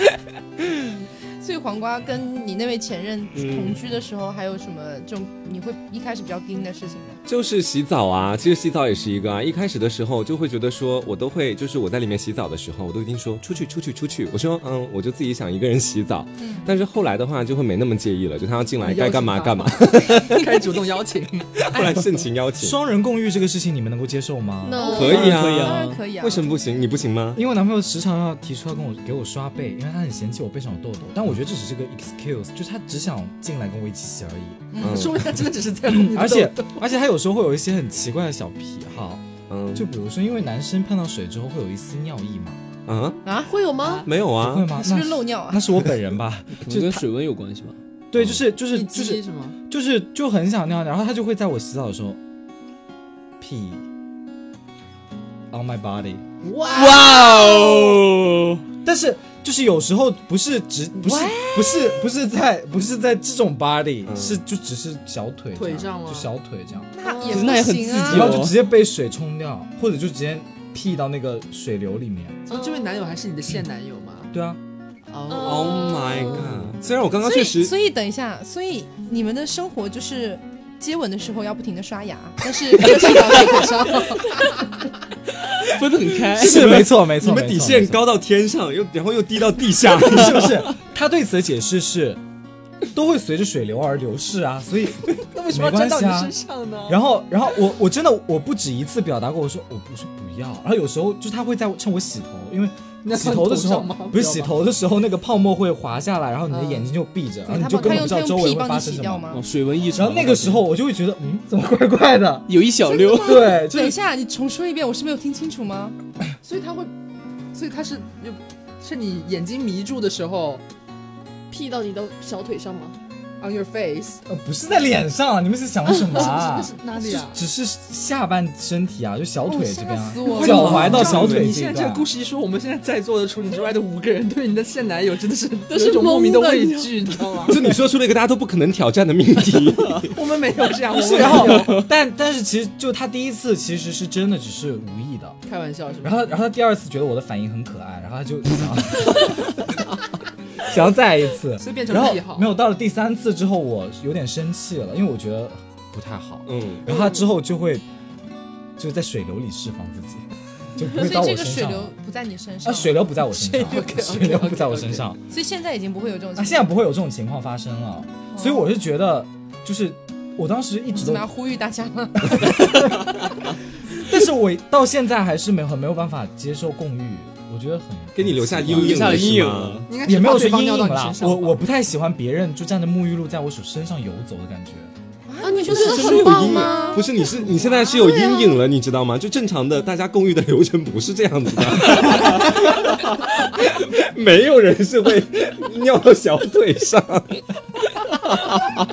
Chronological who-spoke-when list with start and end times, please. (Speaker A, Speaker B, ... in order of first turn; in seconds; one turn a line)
Speaker A: 1.4-7.2
Speaker B: 3.3-3.8
Speaker B: 7.3-20.6
Speaker A: 16.4-16.7
Speaker C: 18.8-21.7
Speaker B: 21.6-22.8
Speaker D: 22.6-25.3
Speaker E: 24.6-25.4
Speaker A: 24.8-26.5
Speaker B: 24.9-27.4
Speaker F: 25.0-26.0
Speaker D: 27.4-34.7
Speaker A: 34.7-35.1
Speaker B: 34.8-35.3
Speaker C: 34.8-36.9
Speaker D: 35.9-42.6
Speaker B: 39.5-39.9
Speaker B: 42.9-43.2
Speaker A: 43.2-43.5
Speaker E: 43.5-44.1
Speaker B: 44.0-44.7
Speaker D: 44.4-47.1
Speaker A: 44.7-45.9
Speaker F: 46.6-47.8
Speaker D: 48.1-52.2
Speaker C: 48.7-49.6
Speaker D: 53.4-53.8
Speaker D: 55.5-56.2
Speaker C: 56.4-57.2
Speaker F: 56.7-58.6
Speaker E: 56.9-57.8
Speaker D: 58.8-66.9
Speaker A: 61.0-62.0
Speaker B: 64.1-64.4
Speaker C: 65.5-66.3
Speaker A: 67.0-68.4
Speaker E: 67.0-67.5
Speaker F: 67.3-68.6
Speaker D: 67.5-72.5
Speaker C: 72.5-74.3
Speaker E: 72.5-73.1
Speaker D: 74.3-74.6
Speaker C: 75.1-76.5
Speaker E: 75.3-76.5
Speaker B: 75.4-77.8
Speaker A: 77.2-84.6
Speaker F: 85.6-86.9
Speaker D: 86.4-88.1
Speaker B: 86.4-90.7
Speaker D: 90.0-92.2
Speaker D: 92.9-96.4
Speaker C: 95.2-97.0
Speaker D: 96.9-109.3
Speaker C: 103.0-104.6
Speaker C: 106.5-106.9
Speaker A: 107.5-109.4
Speaker F: 109.3-110.7
Speaker D: 109.9-112.5
Speaker F: 112.5-113.5
Speaker A: 112.8-116.0
Speaker D: 113.1-114.0
Speaker C: 116.4-116.9
Speaker C: 117.5-120.6
Speaker E: 121.5-123.0
Speaker C: 123.4-124.2
Speaker D: 124.3-132.1
Speaker C: 126.1-127.4
Speaker A: 129.5-131.1
Speaker C: 130.3-137.7
Speaker B: 130.5-131.5
Speaker E: 135.7-137.0
Speaker B: 137.5-140.1
Speaker C: 140.1-141.9
Speaker D: 140.9-145.4
Speaker F: 141.6-141.8
Speaker C: 145.5-146.3
Speaker D: 146.0-149.6
Speaker D: 150.6-157.8
Speaker C: 151.6-152.5
Speaker B: 156.5-156.8
Speaker E: 156.9-157.3
Speaker D: 158.8-161.9
Speaker A: 160.8-163.1
Speaker D: 162.6-165.2
Speaker C: 163.4-165.1
Speaker A: 165.3-166.7
Speaker D: 166.4-171.3
Speaker A: 168.3-168.7
Speaker A: 170.9-172.9
Speaker D: 172.3-173.1
Speaker D: 174.0-179.4
Speaker B: 178.2-179.9
Speaker F: 178.7-179.9
Speaker C: 179.9-181.6
Speaker D: 180.0-184.9
Speaker A: 185.3-187.1
Speaker E: 185.4-188.6
Speaker B: 185.7-197.4
Speaker A: 187.6-188.1
Speaker B: 198.0-198.8